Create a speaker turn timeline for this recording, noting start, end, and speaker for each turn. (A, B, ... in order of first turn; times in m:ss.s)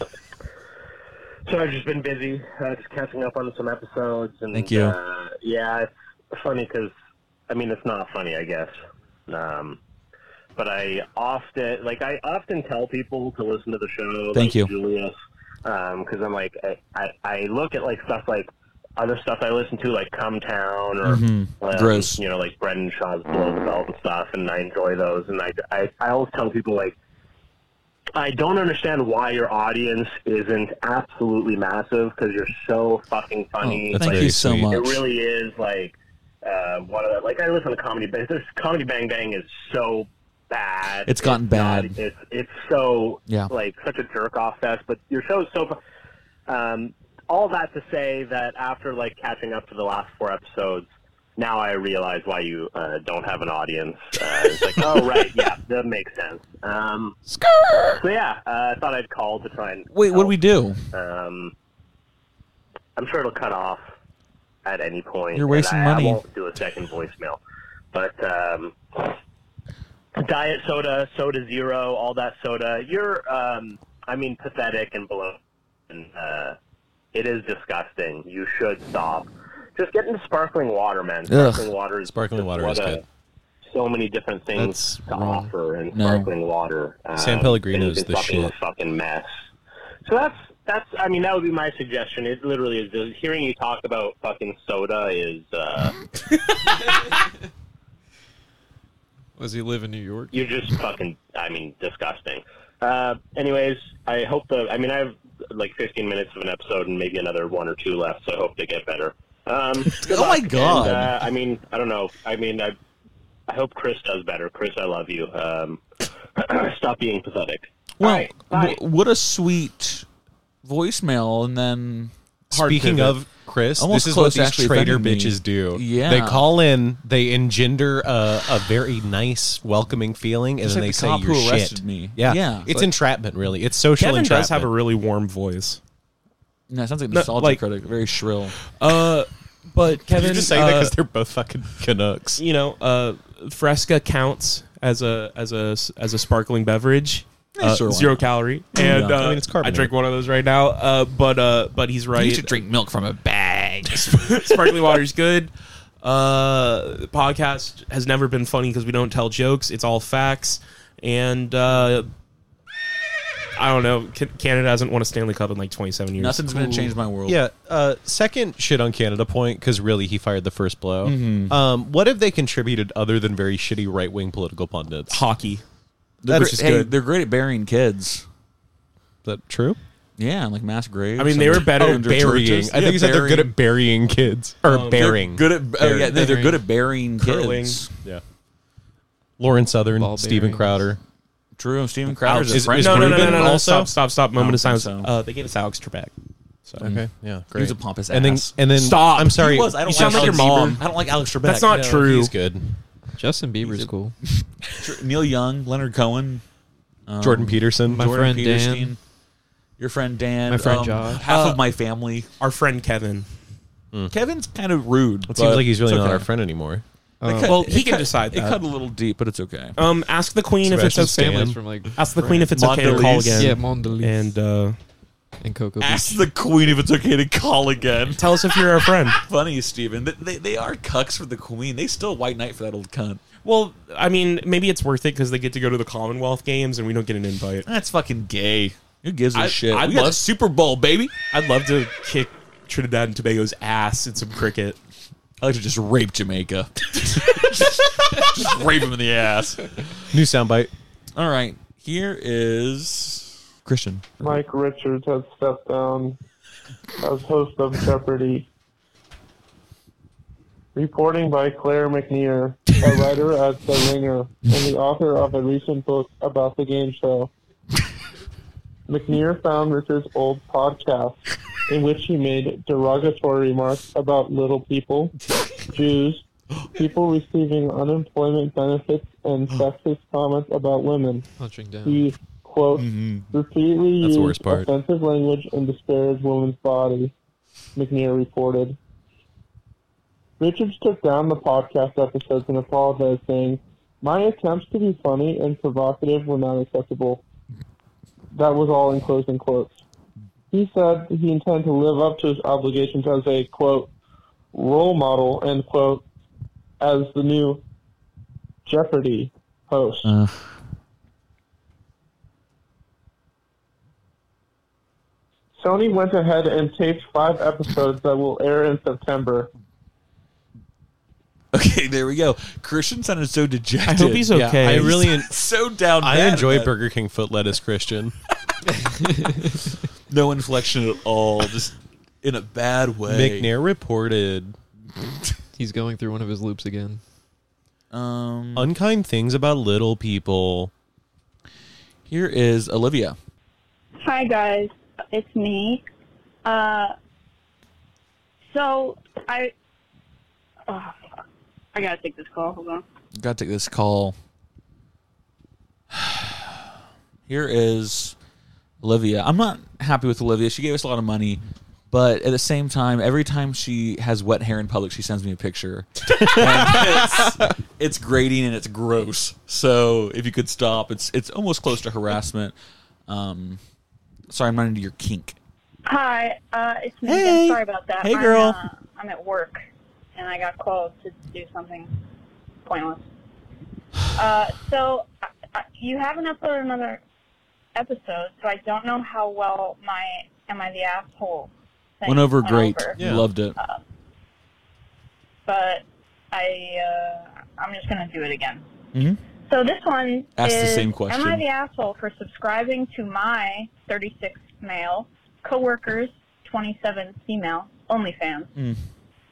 0:01.4-0:06.9 A
0:04.5-0:05.0 B
0:07.5-0:08.7 A
0:09.3-0:09.8 A
0:10.6-0:15.1 A
0:14.3-0:14.7 B
0:15.6-0:26.9 A
0:21.0-0:22.2 B
0:28.2-0:45.8 A
0:33.6-0:35.0 B
0:33.9-0:34.7 C
0:41.0-0:42.0 B
0:43.3-0:43.5 B
0:46.5-0:57.2 A
0:57.3-0:57.9 D
0:57.9-1:00.4 A
0:59.9-1:00.9 B
1:00.9-1:01.5 A
1:03.0-1:03.8 A
1:04.6-1:07.4 A
1:05.3-1:06.2 B
1:07.9-1:09.2 A
1:10.1-1:16.6 A
1:17.1-1:23.0 A
1:21.3-1:21.7 B
1:22.0-1:23.0 C
1:23.7-1:29.3 A
1:24.5-1:25.5 D
1:25.9-1:26.3 B
1:27.2-1:28.5 C
1:30.0-1:36.0 A
1:39.4-1:40.7 D
1:40.3-1:52.7 A
1:49.9-1:51.2 B
1:53.5-1:55.8 A
1:56.3-1:58.8 A
1:58.0-2:00.0 B
2:00.6-2:02.1 B
2:02.5-2:03.2 E
2:02.5-2:14.7 C
2:03.8-2:06.5 B
2:10.6-2:12.7 B
2:14.0-2:15.8 E
2:16.7-2:18.6 B
2:17.1-2:17.6 E
2:18.6-2:20.9 E
2:20.0-2:22.4 C
2:22.4-2:32.6 E
2:27.5-2:29.2 B
2:28.8-2:29.9 C
2:32.2-2:34.5 B
2:33.9-2:42.1 E
2:43.6-2:46.4 E
2:46.2-2:47.4 B
2:47.2-2:55.2 C
2:51.0-2:51.6 B
2:55.1-2:55.6 E
2:56.2-2:58.2 B
2:56.3-2:56.9 E
2:59.2-2:59.8 C
3:00.2-3:03.5 B
3:01.2-3:02.2 E
3:01.6-3:05.5 C
3:04.6-3:05.2 E
3:04.9-3:07.9 B
3:06.0-3:06.6 D
3:07.2-3:07.8 E
3:09.4-3:11.0 C
3:10.0-3:10.8 D
3:11.6-3:13.6 B
3:12.2-3:16.1 E
3:12.3-3:13.9 C
3:14.3-3:15.1 B
3:16.8-3:20.8 C
3:16.8-3:18.6 B
3:18.7-3:20.8 E
3:19.3-3:21.8 B
3:21.4-3:22.3 E
3:21.6-3:22.8 C
3:23.2-3:24.2 D
3:23.6-3:26.4 B
3:27.1-3:29.0 B
3:27.2-3:28.1 C
3:27.9-3:28.9 D
3:29.8-3:32.3 B
3:30.5-3:31.2 D
3:31.2-3:31.6 E
3:32.4-3:33.3 E
3:34.1-3:36.2 B
3:35.3-3:36.8 C
3:37.2-3:37.6 D
3:37.2-3:39.8 B
3:37.4-3:38.6 E
3:39.8-3:44.8 E
3:40.6-3:41.6 C
3:40.8-3:44.4 D
3:42.5-3:43.5 B
3:45.4-3:46.2 D
3:45.8-3:53.2 B
3:48.2-3:49.2 E
3:53.4-3:57.7 E
3:57.6-4:01.1 B
3:59.3-4:00.3 E
4:01.2-4:04.8 E
4:05.4-4:10.1 B
4:10.1-4:10.7 C
4:11.1-4:14.1 B
4:14.2-4:16.2 F
4:17.0-4:18.5 F
4:20.7-4:27.3 F
4:28.9-4:41.3 F
4:41.4-4:42.0 D
4:41.8-4:47.1 F
4:42.8-4:43.3 B
4:44.0-4:44.7 C
4:47.7-4:48.8 F
4:50.4-4:57.2 F
4:58.3-4:59.8 F
5:00.5-5:03.9 F
5:04.5-5:06.0 F
5:06.8-5:07.6 F
5:08.6-5:10.1 F
5:10.0-5:10.6 B
5:15.6-5:19.5 F
5:21.5-5:26.7 B
5:23.8-5:25.0 E
5:24.3-5:25.3 C
5:26.0-5:28.1 C
5:28.8-5:29.4 D
5:30.1-5:33.5 B
5:33.1-5:34.5 C
5:35.5-5:37.0 D
5:37.9-5:38.7 B
5:38.6-5:40.7 C
5:42.1-5:43.2 B
5:44.0-5:45.8 G
5:46.4-5:46.9 G
5:48.5-5:49.5 G
5:50.7-5:51.0 G
5:51.7-5:52.8 G
5:53.2-5:54.1 B
5:55.9-5:56.5 B
5:57.3-5:58.1 B
5:58.8-6:12.5 B
6:06.3-6:06.8 C
6:13.1-6:13.6 B
6:14.3-6:15.4 B
6:15.8-6:19.6 G
6:17.0-6:18.6 B
6:20.2-6:21.9 G
6:22.6-6:23.0 G
6:24.1-6:27.0 G
6:27.7-6:33.0 G
6:32.0-6:33.6 B
6:33.0-6:33.2 C
6:33.6-6:33.8 G
6:35.4-6:38.6 G
6:38.9-6:39.2 B
6:39.4-6:48.5 G
6:40.4-6:41.4 B
6:48.6-6:48.8 B